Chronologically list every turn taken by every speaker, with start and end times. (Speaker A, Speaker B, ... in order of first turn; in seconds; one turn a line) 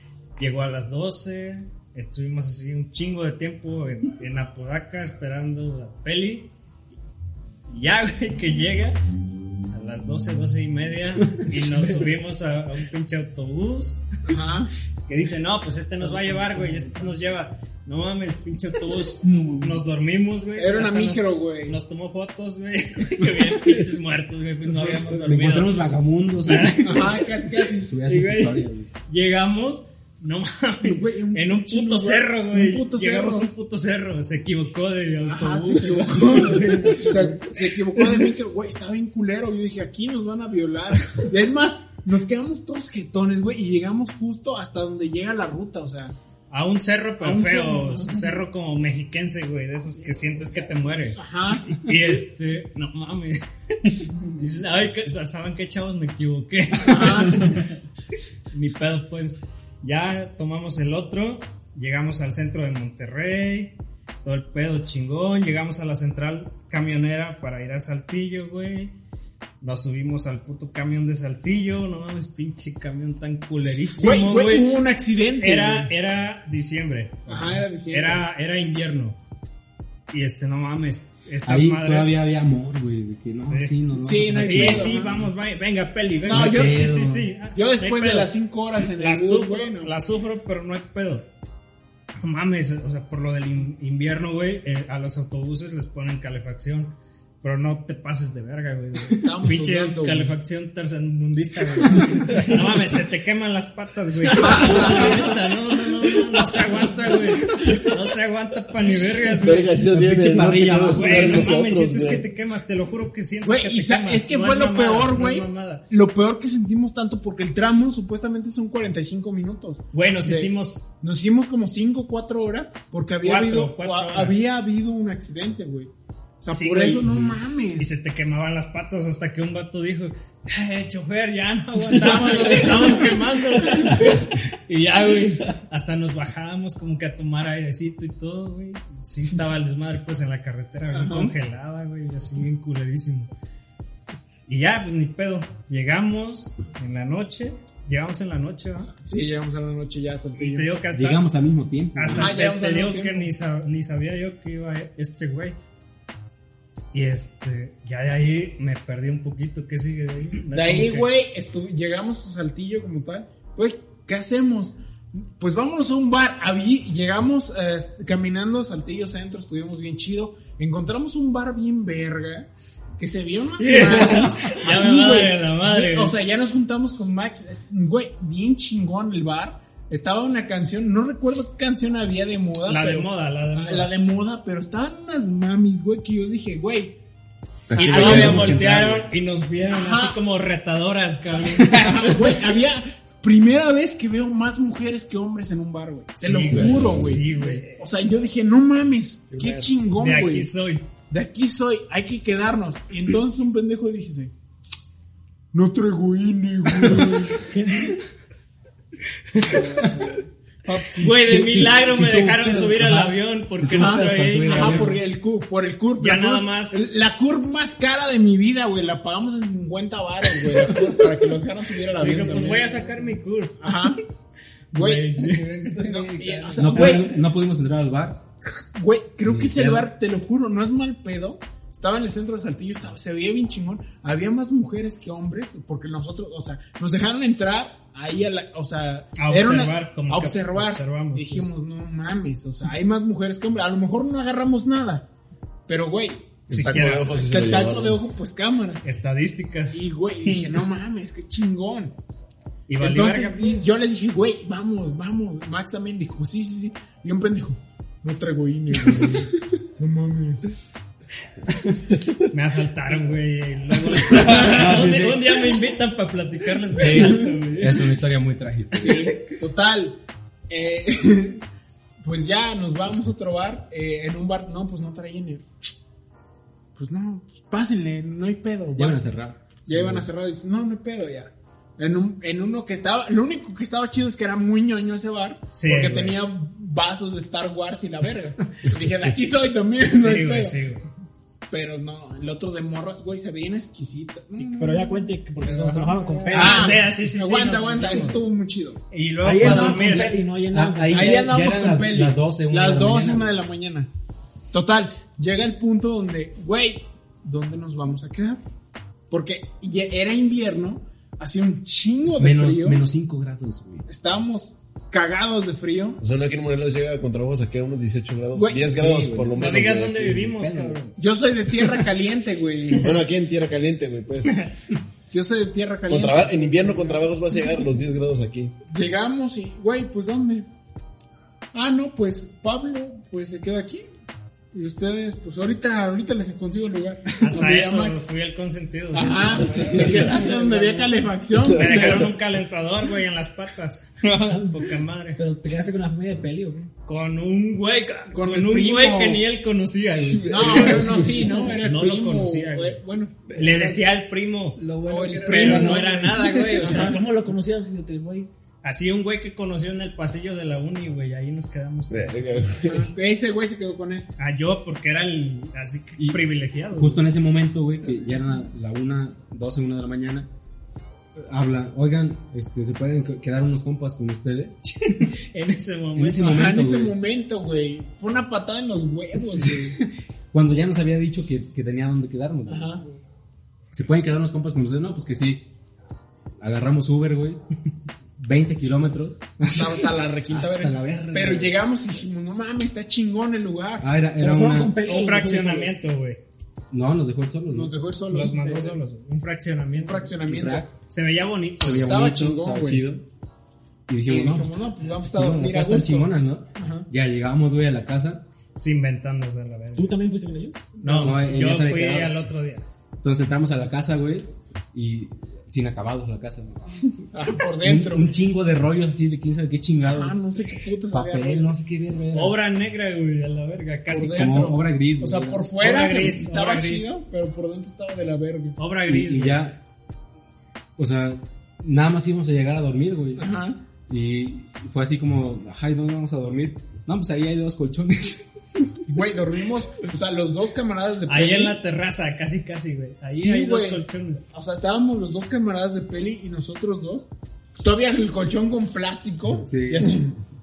Speaker A: 0.4-6.5
Speaker A: 7.7-9.0
Speaker A: 9.7-14.0
Speaker B: 14.2-14.7
Speaker A: 15.1-25.8
Speaker C: 16.1-17.0
Speaker C: 19.2-19.8
Speaker B: 20.6-21.8
Speaker D: 25.1-27.1
Speaker A: 26.4-27.2
Speaker B: 26.8-27.9
Speaker D: 27.8-28.9
Speaker A: 28.0-37.4
Speaker B: 30.8-33.5
Speaker B: 35.2-46.1
Speaker C: 36.2-37.4
Speaker A: 46.5-57.6
Speaker B: 47.2-48.3
Speaker B: 50.1-51.7
Speaker B: 56.8-57.6
Speaker A: 58.5-68.9
Speaker A: 69.6-74.8
Speaker B: 73.9-75.9
Speaker A: 75.4-79.2
Speaker B: 77.2-78.2
Speaker A: 80.1-82.2
Speaker D: 81.4-85.0
Speaker A: 83.4-83.7
Speaker B: 84.0-85.2
Speaker A: 84.3-88.3
Speaker B: 86.2-86.9
Speaker D: 86.3-87.3
Speaker B: 87.5-89.9
Speaker A: 88.8-91.2
Speaker A: 92.2-109.8
Speaker B: 99.1-100.3
Speaker B: 104.5-105.0
Speaker E: 109.3-112.2
Speaker D: 109.9-111.5
Speaker A: 110.9-115.8
Speaker B: 113.4-125.9
Speaker A: 119.9-120.9
Speaker A: 123.2-124.4
Speaker B: 126.4-127.9
Speaker A: 126.5-127.2
Speaker A: 127.8-143.3
Speaker B: 131.9-133.1
Speaker C: 132.1-132.8
Speaker B: 140.9-141.3
Speaker A: 144.5-148.9
Speaker B: 149.0-150.7
Speaker A: 150.3-151.2
Speaker D: 150.9-152.3
Speaker A: 151.9-155.6
Speaker B: 152.1-153.3
Speaker A: 156.9-161.1
Speaker B: 160.5-172.5
Speaker B: 173.0-186.9
Speaker A: 173.6-176.1
Speaker A: 182.7-183.9
Speaker E: 187.7-188.6
Speaker D: 187.7-189.1
Speaker A: 187.7-192.3
Speaker B: 187.9-188.4
Speaker B: 189.7-190.2
Speaker B: 191.7-200.5
Speaker A: 196.2-197.8
Speaker E: 196.4-197.2
Speaker C: 199.3-199.7
Speaker A: 199.9-200.8
Speaker B: 201.1-204.3
Speaker B: 205.5-207.4
Speaker D: 206.8-207.1
Speaker C: 207.4-208.0
Speaker A: 209.3-209.7
Speaker B: 209.4-210.1
Speaker D: 210.8-214.9
Speaker A: 211.0-214.9
Speaker B: 213.6-222.8
Speaker A: 216.0-216.8
Speaker A: 222.0-223.6
Speaker B: 223.6-224.0
Speaker B: 224.7-227.1
Speaker A: 224.7-225.5
Speaker C: 225.6-227.0
Speaker D: 226.5-228.2
Speaker B: 228.7-245.1
Speaker D: 229.2-229.9
Speaker A: 239.2-241.5
Speaker B: 245.7-248.8
Speaker E: 246.5-248.0
Speaker A: 246.5-247.3
Speaker A: 248.8-250.6
Speaker B: 249.7-251.9
Speaker A: 252.7-253.6
Speaker B: 252.8-260.5
Speaker A: 262.2-267.8
Speaker D: 264.3-265.3
Speaker D: 266.8-269.1
Speaker B: 268.8-270.0
Speaker B: 270.5-271.4
Speaker B: 272.0-275.4
Speaker B: 276.8-279.0
Speaker D: 278.8-280.1
Speaker B: 279.6-290.6
Speaker A: 285.5-286.2
Speaker A: 289.9-290.8
Speaker B: 291.5-298.8
Speaker C: 294.4-296.9
Speaker A: 296.3-298.2
Speaker A: 298.9-300.1
Speaker C: 299.2-301.3
Speaker B: 299.4-300.1
Speaker D: 299.4-299.7
Speaker D: 300.5-303.3
Speaker B: 300.9-303.9
Speaker B: 304.5-308.4
Speaker B: 309.1-312.8
Speaker D: 312.2-313.9
Speaker B: 313.9-316.0
Speaker E: 316.0-320.2
Speaker B: 318.3-318.7
Speaker D: 318.7-320.8
Speaker A: 319.3-320.9
Speaker B: 321.0-323.0
Speaker E: 322.7-324.3
Speaker A: 324.3-324.5
Speaker B: 325.1-327.1
Speaker E: 325.9-328.5
Speaker B: 328.7-330.4
Speaker B: 331.5-333.9
Speaker B: 334.5-338.0
Speaker A: 337.2-339.9
Speaker B: 338.9-342.1
Speaker C: 339.1-340.9
Speaker A: 341.5-345.2
Speaker E: 341.6-342.0
Speaker C: 344.3-344.6
Speaker C: 345.2-346.7
Speaker A: 346.9-350.8
Speaker B: 348.1-349.2
Speaker E: 350.2-351.2
Speaker B: 350.3-353.7
Speaker A: 351.6-352.8
Speaker A: 353.3-354.6
Speaker C: 354.6-358.3
Speaker B: 354.9-357.0
Speaker A: 355.2-357.0
Speaker D: 355.4-355.9
Speaker A: 358.6-362.5
Speaker E: 361.9-362.9
Speaker B: 362.6-364.1
Speaker A: 364.2-367.0
Speaker D: 366.0-366.2
Speaker D: 366.7-370.3
Speaker D: 371.2-374.6
Speaker A: 374.7-376.5
Speaker D: 375.9-376.9
Speaker B: 376.2-379.8
Speaker D: 379.4-382.8
Speaker B: 382.4-382.8
Speaker D: 383.7-385.5
Speaker D: 386.4-387.4
Speaker D: 388.2-391.6
Speaker B: 389.5-393.9
Speaker D: 393.8-394.7
Speaker C: 394.2-395.7
Speaker A: 394.8-396.2
Speaker D: 396.7-397.7
Speaker B: 397.5-398.8
Speaker A: 398.1-400.1
Speaker B: 399.7-400.7
Speaker D: 400.2-400.7
Speaker A: 400.9-402.0
Speaker D: 401.6-403.0
Speaker B: 401.9-402.9
Speaker D: 403.9-408.2
Speaker B: 404.1-406.9
Speaker A: 408.5-409.9
Speaker C: 409.8-410.6
Speaker B: 410.8-411.1
Speaker A: 410.8-412.6
Speaker D: 410.9-412.2
Speaker D: 413.0-416.9
Speaker B: 417.1-418.1
Speaker D: 417.6-420.2
Speaker B: 419.8-421.5
Speaker D: 420.9-422.4
Speaker A: 422.1-424.2
Speaker B: 423.9-428.6
Speaker D: 424.0-425.5
Speaker A: 425.6-426.9
Speaker A: 428.6-429.5
Speaker D: 428.9-429.6
Speaker D: 430.8-433.3
Speaker B: 433.1-433.6
Speaker D: 433.9-438.3
Speaker B: 438.9-441.6
Speaker A: 441.1-444.2
Speaker B: 443.1-447.1
Speaker B: 447.6-450.1
Speaker D: 449.4-449.9